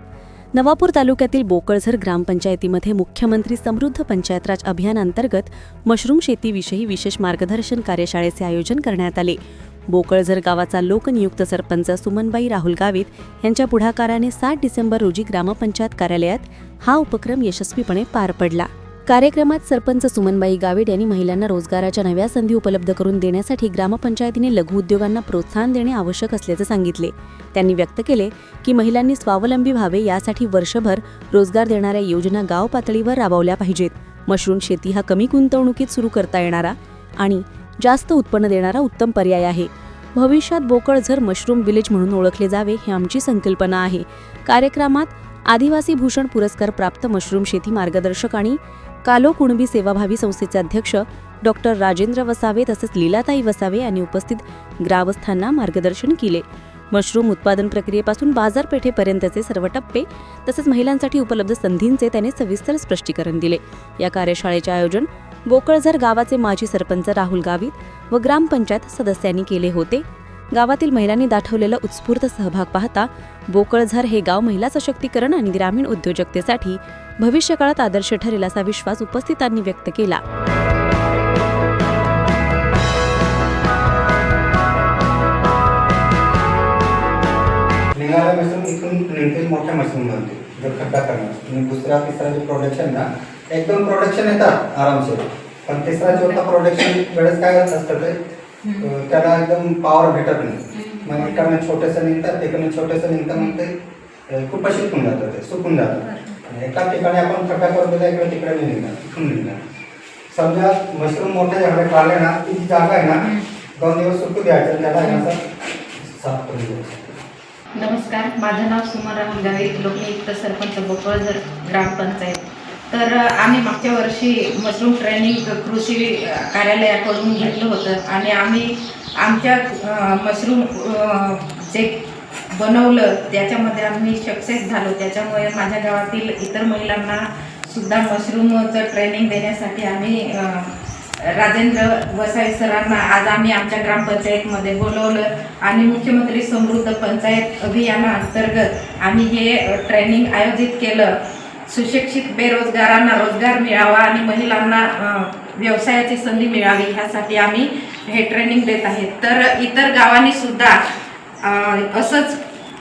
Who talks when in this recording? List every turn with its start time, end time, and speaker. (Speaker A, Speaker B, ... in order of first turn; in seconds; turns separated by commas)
Speaker A: 0.6-9.4, Speaker A: 9.9-80.2, Speaker B: 88.0-98.2, Speaker C: 96.1-96.4, Speaker C: 98.6-98.9, Speaker B: 98.8-103.7, Speaker C: 100.8-101.5, Speaker B: 104.3-109.6, Speaker C: 106.0-106.4, Speaker B: 110.3-115.4, Speaker C: 113.2-113.5, Speaker C: 115.0-115.3, Speaker B: 116.0-117.2, Speaker C: 117.8-160.8, Speaker C: 161.4-162.4